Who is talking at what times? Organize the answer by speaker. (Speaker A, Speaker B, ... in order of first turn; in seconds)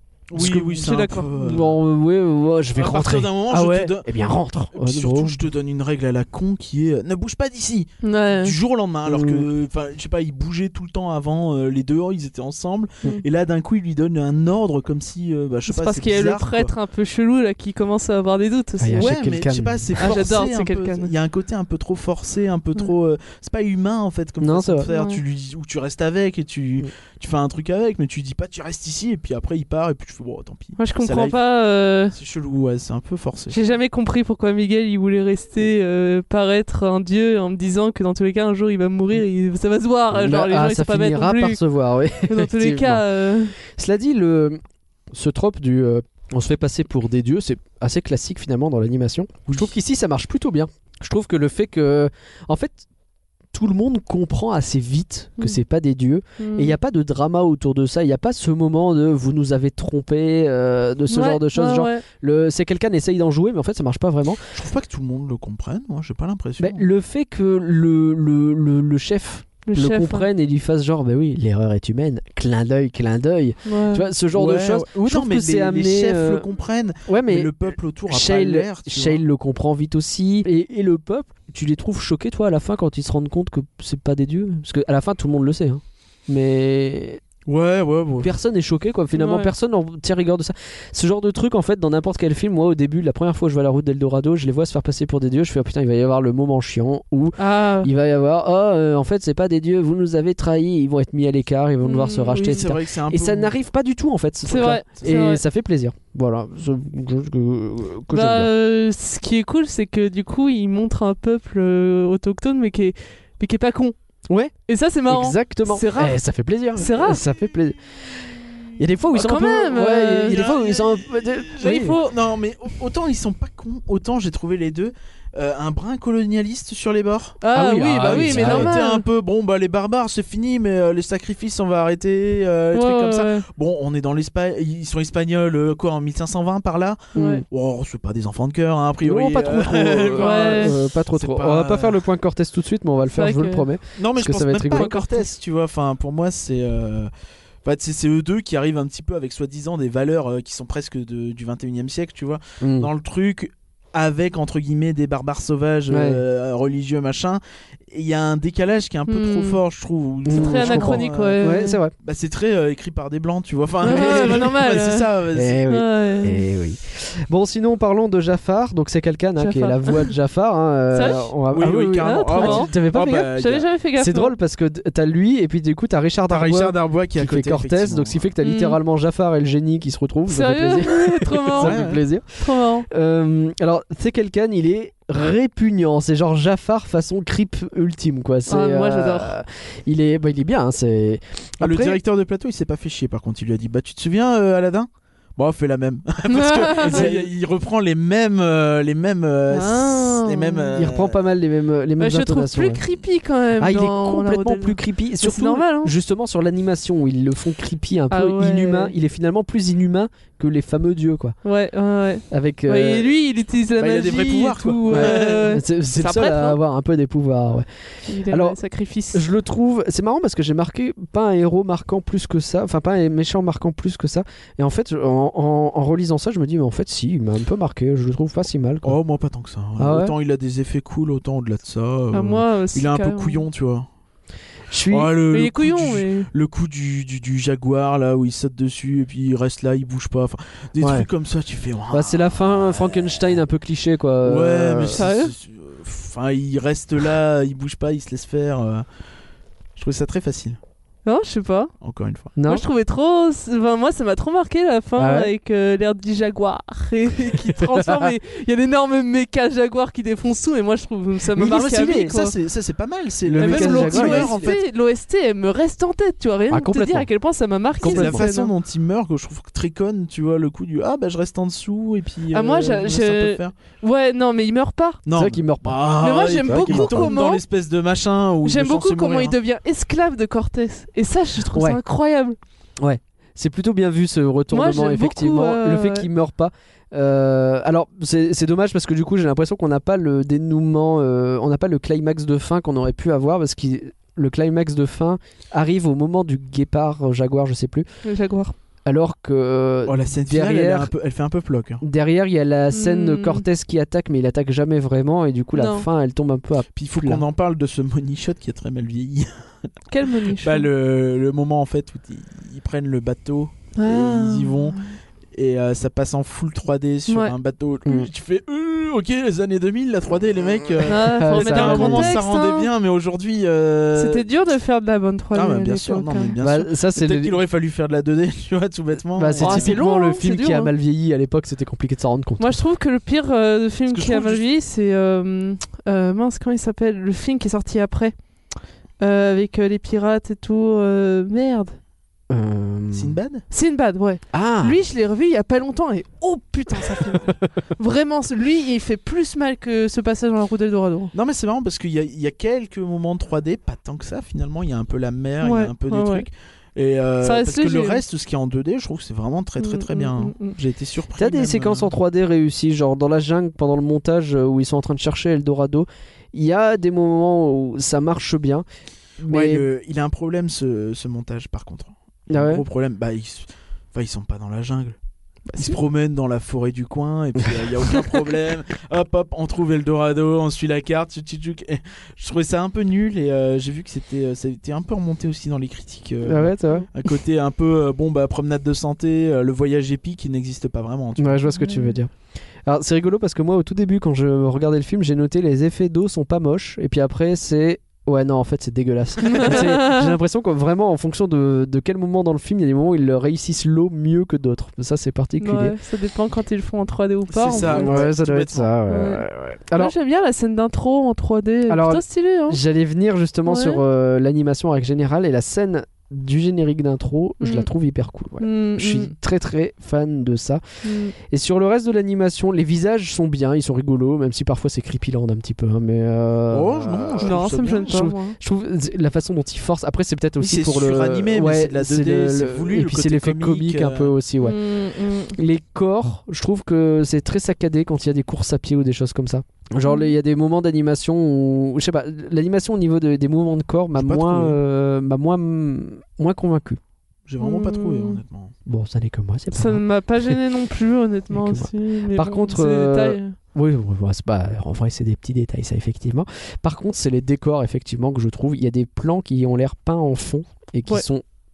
Speaker A: 0.3-1.8, 2.8-4.1, 4.7-16.7, 18.9-31.4, 32.1-33.6, 49.5-49.7, 64.5-66.8, 74.3-79.2, 87.5-88.3, 102.3-103.5, 120.2-127.4, 128.0-142.0, 143.9-147.1, 147.6-165.6, 171.5-173.7, 176.3-178.3, 181.6-182.0, 191.6-201.2, 213.8-215.6, 228.8-233.9, 234.9-242.9, 244.2-248.8, 249.8-250.6, 251.8-252.3, 261.4-264.6, 267.8-273.5, 275.0-279.4, 299.9-301.8, 306.7-309.4, 310.4-314.8, 315.3-324.2, 325.3-329.8, 333.9-334.4, 342.9-343.4, 351.1-361.9, 369.2-375.0, 375.5-391.4, 407.3-408.7, 426.5-428.0, 430.4-434.1, 443.9-444.6, 447.2-448.5
Speaker B: 0.4-0.8, 1.4-5.4, 9.1-9.5, 18.8-19.9, 24.4-24.9, 40.1-43.0, 43.6-52.9, 53.5-64.5, 66.6-76.5, 77.1-77.5, 78.1-87.2, 88.2-108.5, 114.3-114.5, 115.1-118.0, 118.8-122.0, 127.5-128.8, 137.1-137.4, 139.0-145.0, 152.6-152.9, 155.9-156.2, 160.2-161.9, 163.9-164.4, 165.3-173.3, 174.0-192.0, 196.8-197.2, 200.7-202.8, 203.6-211.4, 212.3-213.1, 214.9-218.6, 219.1-228.9, 229.8-230.1, 234.7-235.1, 240.8-241.1, 241.9-245.0, 252.4-252.6, 255.0-255.3, 257.8-258.1, 261.4-262.1, 263.2-264.6, 266.5-267.1, 267.8-268.2, 275.1-277.1, 281.5-281.8, 282.8-297.9, 298.9-300.9, 301.8-307.2, 321.2-322.1, 326.4-327.3, 329.2-332.6, 342.3-343.2, 344.3-344.8, 361.2-368.6, 369.2-369.6, 372.3-372.6, 386.2-386.9, 391.2-392.1, 392.6-405.7, 407.7-409.9, 411.7-420.6, 421.2-434.6, 435.3-446.8, 448.7-450.4, 451.3-461.2
Speaker C: 0.6-1.3, 8.0-8.6, 15.7-19.1, 20.0-21.1, 24.9-25.2, 30.8-32.1, 33.5-41.6, 42.2-43.5, 56.4-56.7, 61.1-62.0, 69.6-70.3, 73.6-74.1, 89.1-89.5, 97.4-97.9, 101.8-102.7, 104.5-105.4, 108.1-114.0, 114.7-116.2, 116.7-117.2, 119.1-120.4, 121.6-122.1, 127.4-129.0, 132.7-133.4, 137.2-137.4, 140.2-140.7, 143.1-143.7, 144.7-145.2, 159.1-159.6, 160.3-161.8, 163.8-165.1, 165.7-166.4, 169.4-170.1, 170.9-171.3, 172.0-174.3, 178.4-178.8, 180.3-181.8, 182.3-182.9, 188.5-189.3, 196.3-197.1, 199.5-200.7, 202.0-205.9, 208.1-208.9, 211.4-216.6, 218.1-219.2, 232.1-233.4, 235.3-236.3, 244.9-245.3, 251.0-251.7, 252.4-262.3, 263.4-268.5, 272.3-275.0, 276.0-277.4, 278.4-282.4, 284.5-286.1, 298.0-298.5, 302.7-303.4, 305.5-305.9, 309.9-310.7, 313.8-314.9, 317.1-317.3, 320.9-322.7, 323.9-326.3, 329.4-330.7, 332.4-338.1, 339.0-341.7, 343.5-351.1, 355.4-356.3, 357.2-358.0, 359.6-360.5, 391.5-392.0, 399.2-400.1, 405.4-408.0, 408.9-412.6, 413.4-413.8, 417.4-417.7, 418.4-419.1, 420.8-421.1, 427.2-428.4, 434.4-435.4, 439.8-440.1, 447.4-448.2, 449.5-453.3